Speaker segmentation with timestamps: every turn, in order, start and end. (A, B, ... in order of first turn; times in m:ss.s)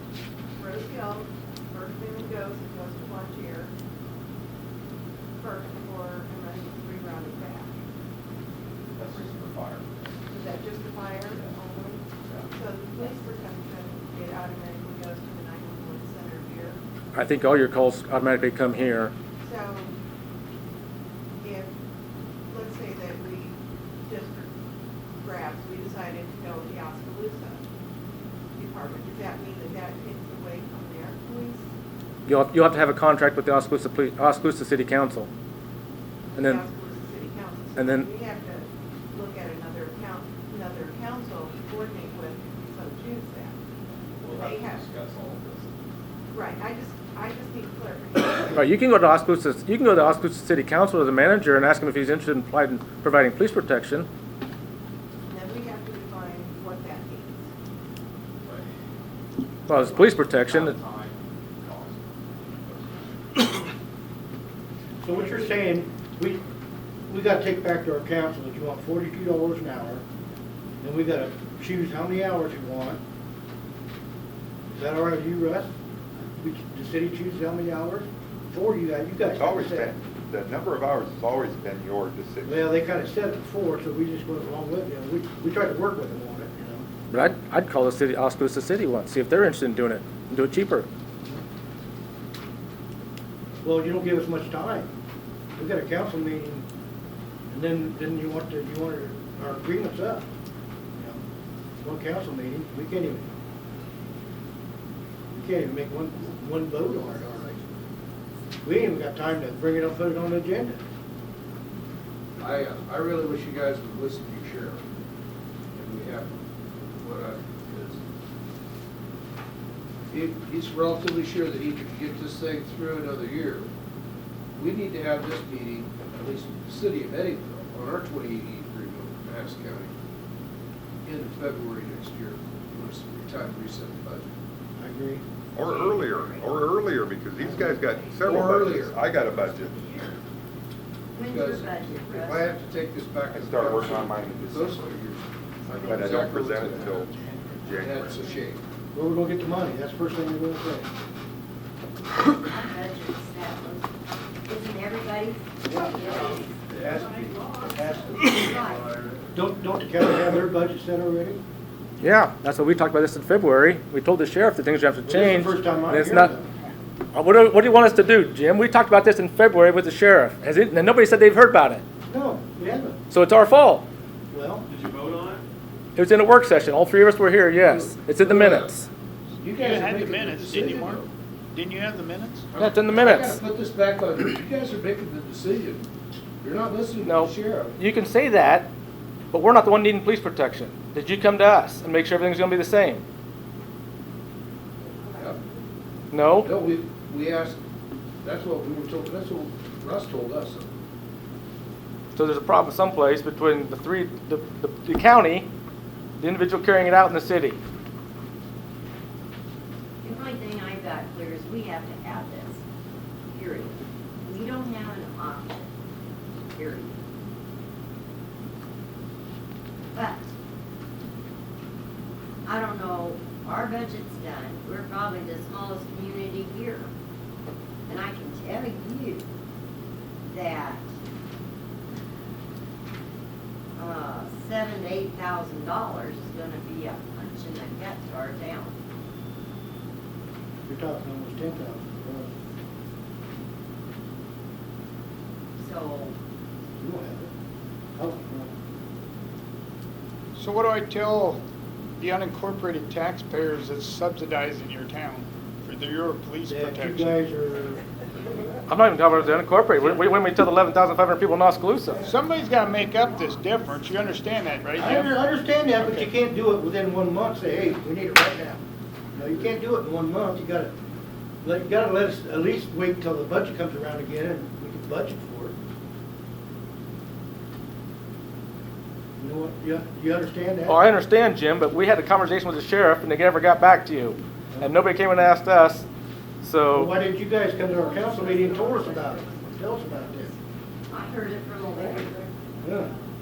0:00.6-0:03.7 A
0:05.4-0:07.7 A
0:09.0-0:09.8 B
0:10.3-0:16.8 A
0:17.1-0:19.1 C
0:19.4-0:19.9 A
0:21.4-0:21.7 A
0:22.5-0:24.5 A
0:25.2-0:27.6 A
0:28.6-0:31.7 A
0:32.2-0:35.3 C
0:36.3-0:43.6 A
0:36.4-0:36.6 C
0:37.8-0:38.1 C
0:44.2-0:44.9 A
0:44.3-0:45.7 B
0:46.3-0:48.7 A
0:48.5-0:54.1 C
0:55.3-0:57.5 A
0:59.7-1:00.8 C
1:00.8-1:02.8 B
1:05.0-1:06.4 D
1:07.1-1:10.0 D
1:10.8-1:13.0 D
1:14.7-1:15.7 D
1:16.4-1:19.9 D
1:19.4-1:22.5 E
1:22.4-1:26.8 D
1:27.1-1:30.9 C
1:33.6-1:34.9 D
1:35.5-1:36.6 D
1:37.5-1:40.3 D
1:40.9-1:41.2 D
1:41.8-1:43.3 D
1:45.3-1:47.5 D
1:48.6-1:50.8 D
1:52.4-1:54.8 F
1:55.7-1:58.0 F
2:00.1-2:03.7 F
2:04.6-2:09.9 F
2:11.0-2:14.3 F
2:14.8-2:15.2 D
2:15.6-2:19.7 E
2:15.7-2:18.9 B
2:17.4-2:17.7 D
2:17.8-2:18.6 A
2:18.2-2:19.0 F
2:19.2-2:20.2 A
2:21.1-2:22.5 G
2:21.2-2:27.1 F
2:23.3-2:24.7 E
2:23.5-2:24.9 B
2:25.9-2:27.0 B
2:25.9-2:27.1 E
2:27.6-2:28.3 B
2:27.7-2:28.6 F
2:27.7-2:28.1 E
2:28.9-2:30.9 D
2:32.4-2:36.5 G
2:36.0-2:38.4 A
2:38.3-2:38.9 G
2:39.3-2:41.4 D
2:42.0-2:46.3 C
2:45.0-2:46.5 D
2:47.1-2:51.8 C
2:52.1-2:53.0 D
2:53.1-2:53.8 C
2:54.3-2:54.6 D
2:54.8-2:55.2 B
2:55.9-2:58.9 C
2:57.7-2:58.8 F
2:59.4-3:01.1 F
2:59.4-3:01.0 H
3:01.5-3:02.5 H
3:02.5-3:05.9 F
3:02.6-3:03.4 C
3:06.4-3:07.7 F
3:07.0-3:08.7 C
3:09.3-3:13.0 C
3:15.1-3:15.4 F
3:16.1-3:16.5 C
3:16.4-3:17.6 F
3:18.2-3:20.7 F
3:22.1-3:25.5 C
3:26.2-3:27.6 C
3:30.0-3:32.6 G
3:33.3-3:35.7 G
3:36.5-3:36.9 G
3:39.9-3:40.3 G
3:42.4-3:46.9 G
3:47.8-3:49.3 G
3:50.2-3:50.9 G
3:53.8-3:58.7 G
4:00.6-4:02.3 D
4:05.6-4:06.2 G
4:06.8-4:07.3 D
4:08.0-4:08.5 D
4:10.3-4:11.4 H
4:12.0-4:17.2 H
4:16.5-4:17.8 D
4:18.7-4:22.0 C
4:22.0-4:25.1 H
4:24.8-4:28.6 D
4:29.1-4:30.7 D
4:31.4-4:35.5 D
4:39.2-4:40.8 D
4:40.6-4:45.9 C
4:46.4-4:46.9 C
4:46.7-4:50.3 D
4:47.7-4:49.4 G
4:50.9-4:52.3 G
4:52.6-4:52.9 D